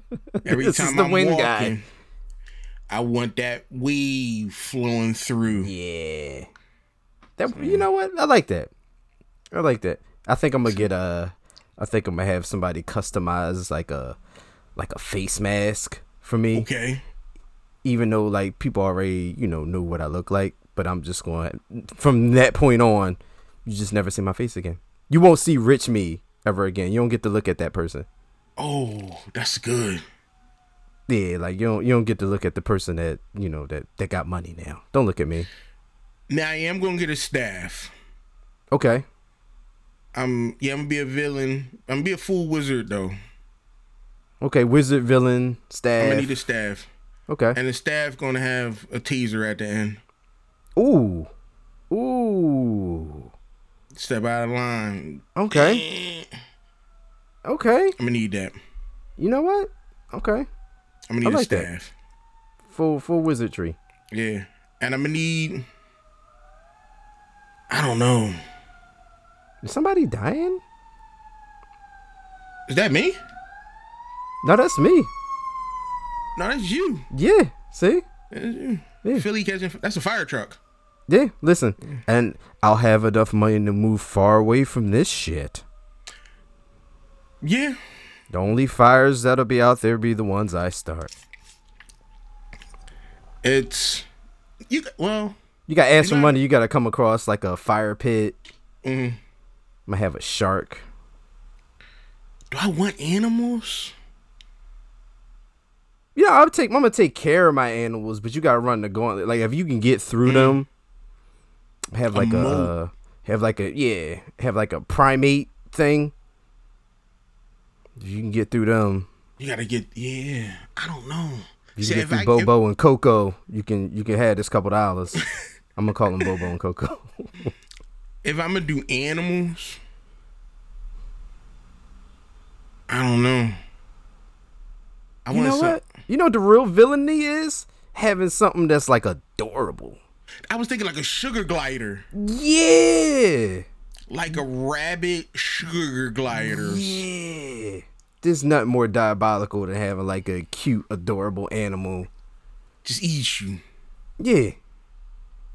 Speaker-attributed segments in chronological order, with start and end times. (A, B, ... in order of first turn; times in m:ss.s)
0:00.4-0:01.8 A
0:00.4-0:01.8 B
0:02.9-0:05.7 B
0:05.5-0:06.5 A
0:07.4-0:08.7 A
0:07.5-0:07.8 B
0:09.5-0:14.2 A
0:14.8-0:16.7 A
0:16.5-0:17.0 B
0:17.8-0:28.0 A
0:28.6-0:30.0 B
0:31.1-0:35.5 A
0:36.3-0:37.9 B
0:38.7-0:39.0 A
0:40.1-0:43.2 B
0:44.4-0:46.3 A
0:46.0-0:46.9 B
0:47.3-0:47.6 A
0:47.5-0:50.0 B
0:50.8-0:51.3 A
0:51.9-0:53.3 A
0:53.9-0:56.3 B
0:55.3-0:55.8 A
0:57.4-0:57.9 A
0:58.0-0:58.6 B
0:59.2-1:00.5 A
1:01.1-1:01.9 B
1:01.2-1:01.7 A
1:02.7-1:03.8 A
1:04.1-1:05.6 B
1:07.7-1:08.4 B
1:09.6-1:10.6 A
1:12.7-1:13.2 B
1:14.4-1:15.1 A
1:16.4-1:17.1 B
1:17.1-1:18.0 A
1:18.3-1:20.6 B
1:21.1-1:25.6 A
1:27.4-1:27.8 B
1:28.3-1:31.1 A
1:33.4-1:34.1 B
1:34.7-1:35.4 B
1:35.7-1:38.4 A
1:36.0-1:36.4 B
1:38.8-1:39.2 B
1:39.9-1:40.8 A
1:42.5-1:43.9 B
1:46.2-1:50.7 A
1:50.2-1:50.6 B
1:51.9-1:56.1 A
1:52.1-1:52.7 B
1:58.0-1:59.1 A
1:59.4-2:02.5 B
2:01.8-2:05.2 A
2:05.8-2:07.5 A
2:08.2-2:09.8 B
2:12.9-2:13.6 B
2:15.2-2:15.8 B
2:15.3-2:20.0 A
2:20.5-2:22.0 B
2:22.1-2:23.6 A
2:24.1-2:27.0 B
2:26.4-2:32.1 A
2:32.8-2:33.6 B
2:34.2-2:34.6 A